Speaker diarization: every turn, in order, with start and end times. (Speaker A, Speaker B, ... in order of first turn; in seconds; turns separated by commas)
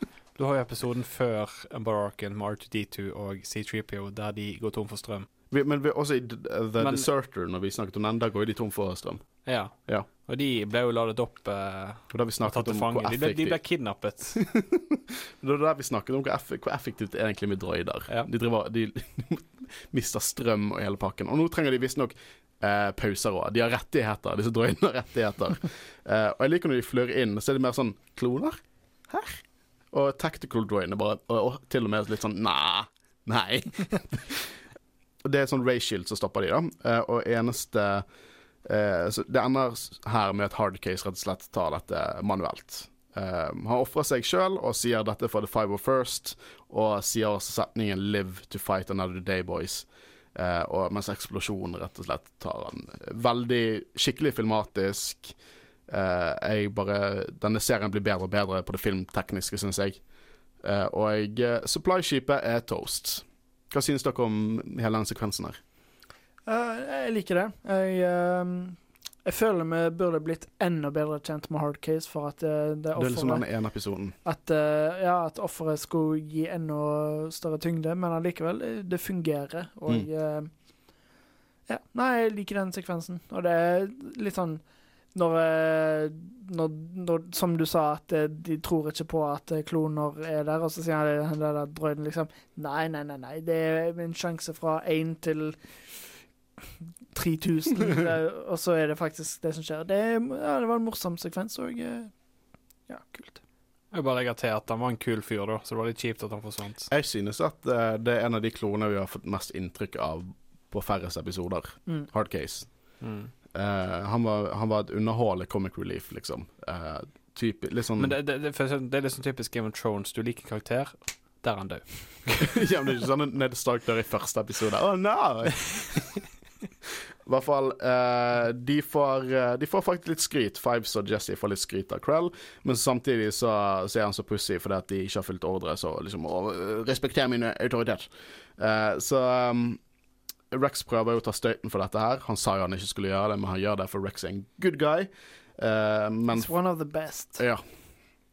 Speaker A: 0.4-5.3, Speaker B: 5.5-10.1, Speaker A: 6.8-7.1, Speaker A: 9.5-14.4, Speaker B: 12.1-13.6, Speaker B: 14.4-28.6, Speaker B: 29.1-34.6, Speaker B: 35.2-38.0, Speaker B: 38.6-55.4, Speaker B: 55.9-60.0, Speaker B: 60.6-65.6, Speaker C: 66.5-73.5, Speaker B: 73.0-74.2, Speaker C: 74.2-80.5, Speaker C: 81.7-84.6, Speaker C: 85.1-95.6, Speaker C: 97.1-102.1, Speaker C: 102.9-103.4, Speaker A: 103.9-106.9, Speaker B: 106.9-112.7, Speaker A: 113.0-113.3, Speaker B: 113.5-118.2, Speaker A: 118.0-122.6, Speaker B: 122.4-126.2, Speaker B: 127.3-139.8, Speaker B: 140.5-146.5, Speaker C: 146.3-147.4, Speaker B: 147.4-147.6